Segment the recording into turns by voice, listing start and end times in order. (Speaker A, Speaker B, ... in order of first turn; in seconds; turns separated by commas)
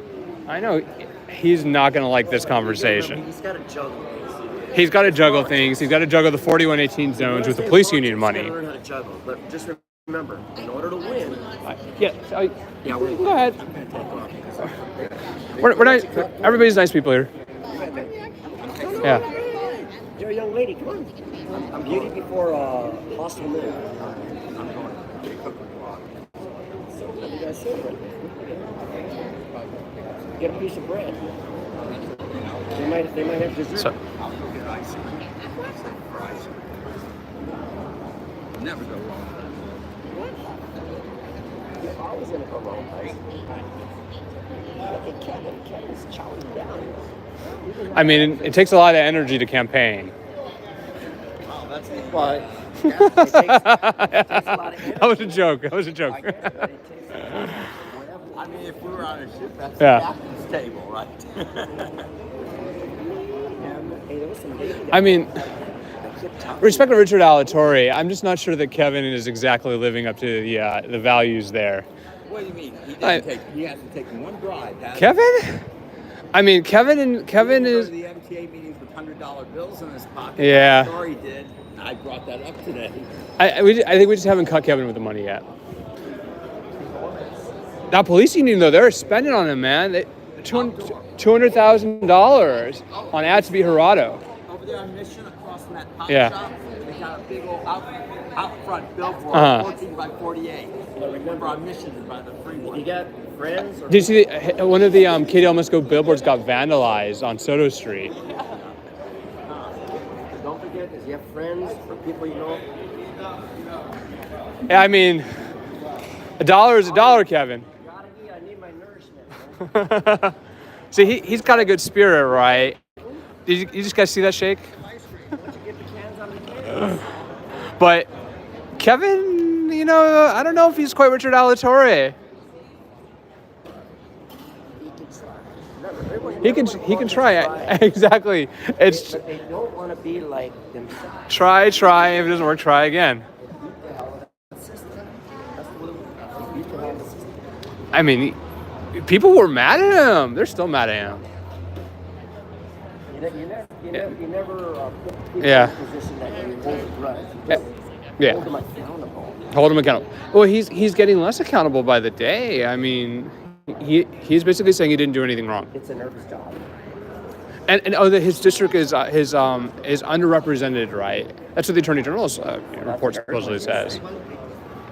Speaker A: 0.5-3.2, Speaker B: 2.2-5.9, Speaker A: 4.7-8.5, Speaker B: 7.1-11.5, Speaker A: 11.7-13.6, Speaker C: 12.8-15.7, Speaker B: 15.6-16.8, Speaker A: 15.6-17.3, Speaker C: 17.6-19.9, Speaker B: 17.7-18.1, Speaker B: 18.8-19.4, Speaker B: 20.1-24.2, Speaker C: 21.7-22.2, Speaker C: 24.0-26.1, Speaker B: 26.9-29.1, Speaker C: 29.2-30.6, Speaker B: 30.4-31.3, Speaker C: 31.8-33.3, Speaker B: 32.7-33.9, Speaker C: 34.0-36.8, Speaker C: 38.5-39.8, Speaker B: 41.8-43.4, Speaker B: 44.8-48.9, Speaker A: 47.9-50.1, Speaker C: 51.4-53.1, Speaker B: 52.1-52.5, Speaker A: 52.8-56.7, Speaker B: 53.0-58.6, Speaker A: 57.3-57.6, Speaker C: 58.3-62.0, Speaker A: 59.8-60.0, Speaker B: 62.9-67.4, Speaker A: 64.9-65.3, Speaker A: 66.6-71.9, Speaker C: 72.3-75.2, Speaker A: 73.0-73.2, Speaker A: 74.9-75.6, Speaker A: 76.3-77.9, Speaker C: 77.3-83.1, Speaker A: 80.4-81.0, Speaker A: 83.4-85.4, Speaker B: 86.7-87.5, Speaker A: 87.9-94.2, Speaker C: 90.4-91.1, Speaker C: 92.9-93.3, Speaker C: 94.4-102.9, Speaker A: 96.1-96.3, Speaker A: 99.3-99.7, Speaker B: 101.0-101.6, Speaker B: 102.6-104.2, Speaker A: 103.9-108.1, Speaker C: 108.2-108.7, Speaker C: 109.4-110.2, Speaker B: 110.3-112.6, Speaker A: 114.7-115.3, Speaker A: 116.4-117.7, Speaker B: 116.8-120.0, Speaker A: 119.7-120.3, Speaker A: 120.9-122.8, Speaker B: 120.9-123.3, Speaker A: 123.5-124.7, Speaker B: 125.3-127.5, Speaker A: 127.8-128.1, Speaker A: 128.8-132.1, Speaker B: 134.8-137.9, Speaker A: 136.4-139.2, Speaker B: 138.8-142.2, Speaker A: 141.3-143.2, Speaker B: 143.4-147.4, Speaker A: 147.9-148.4, Speaker A: 148.9-151.2, Speaker B: 153.1-159.4, Speaker A: 155.4-155.8, Speaker C: 159.4-160.0, Speaker A: 159.5-165.7, Speaker B: 165.7-166.7, Speaker A: 167.7-174.0, Speaker B: 172.8-174.3